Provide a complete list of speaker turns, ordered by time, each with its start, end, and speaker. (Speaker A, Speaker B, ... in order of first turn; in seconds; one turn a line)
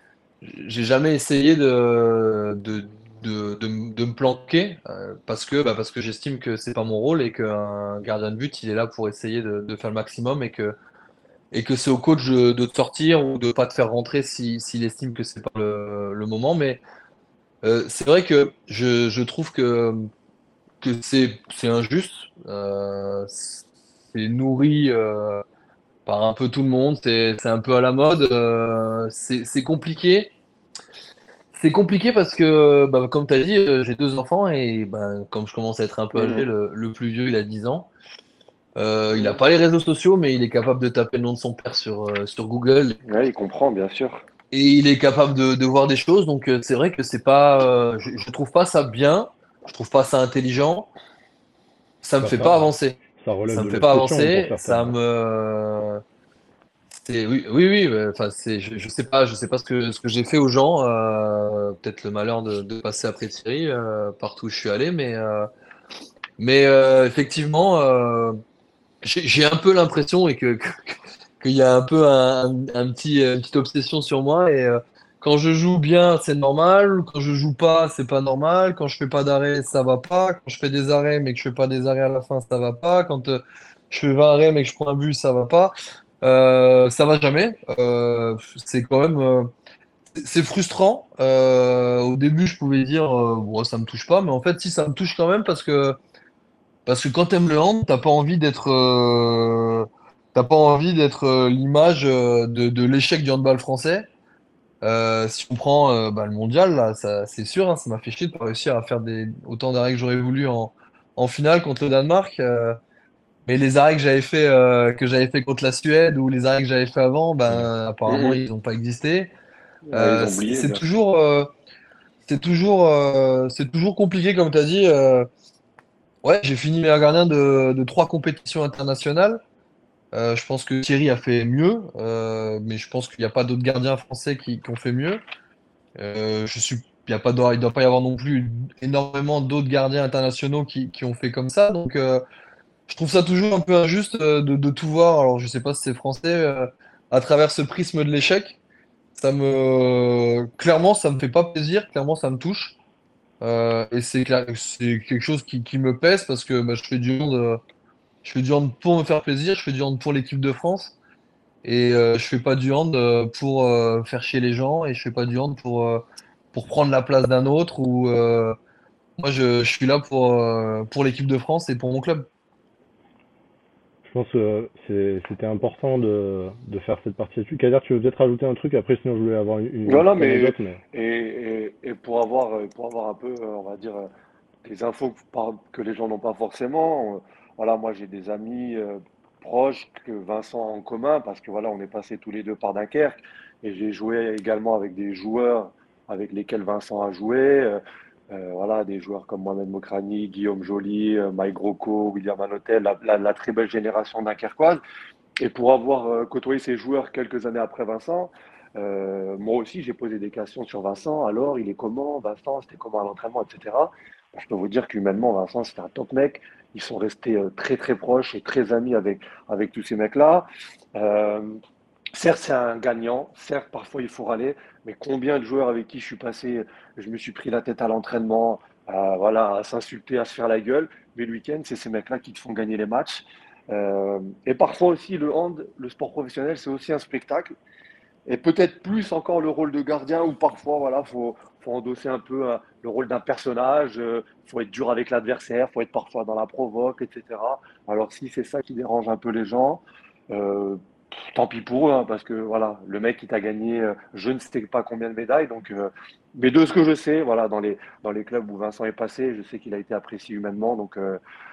Speaker A: 0.4-10.7
Speaker A: 11.5-16.8
Speaker A: 17.6-20.1
Speaker A: 20.8-25.4
Speaker A: 26.1-30.3
Speaker A: 31.5-37.9
Speaker B: 36.1-36.5
Speaker A: 38.8-43.0
Speaker B: 39.1-39.4
Speaker B: 43.0-44.2
Speaker A: 44.5-50.9
Speaker A: 52.0-53.0
Speaker C: 52.2-52.6
Speaker C: 53.2-55.0
Speaker A: 53.5-56.0
Speaker A: 56.9-65.5
Speaker A: 66.4-68.4
Speaker A: 69.0-89.5
Speaker A: 90.2-96.0
Speaker A: 96.8-104.1
Speaker A: 104.8-112.8
Speaker A: 113.5-119.3
Speaker B: 118.1-118.4
Speaker B: 119.8-120.8
Speaker A: 119.9-121.5
Speaker A: 122.2-125.3
Speaker A: 126.2-129.4
Speaker A: 130.1-135.2
Speaker A: 136.0-142.2
Speaker A: 142.9-148.6
Speaker A: 149.2-152.8
Speaker A: 153.4-157.6
Speaker A: 158.2-160.9
Speaker A: 161.6-168.6
Speaker A: 169.2-172.3
Speaker C: 174.0-180.8
Speaker B: 179.9-184.1
Speaker B: 184.6-204.8
Speaker B: 205.4-221.6
Speaker B: 222.1-237.5
Speaker B: 238.3-261.2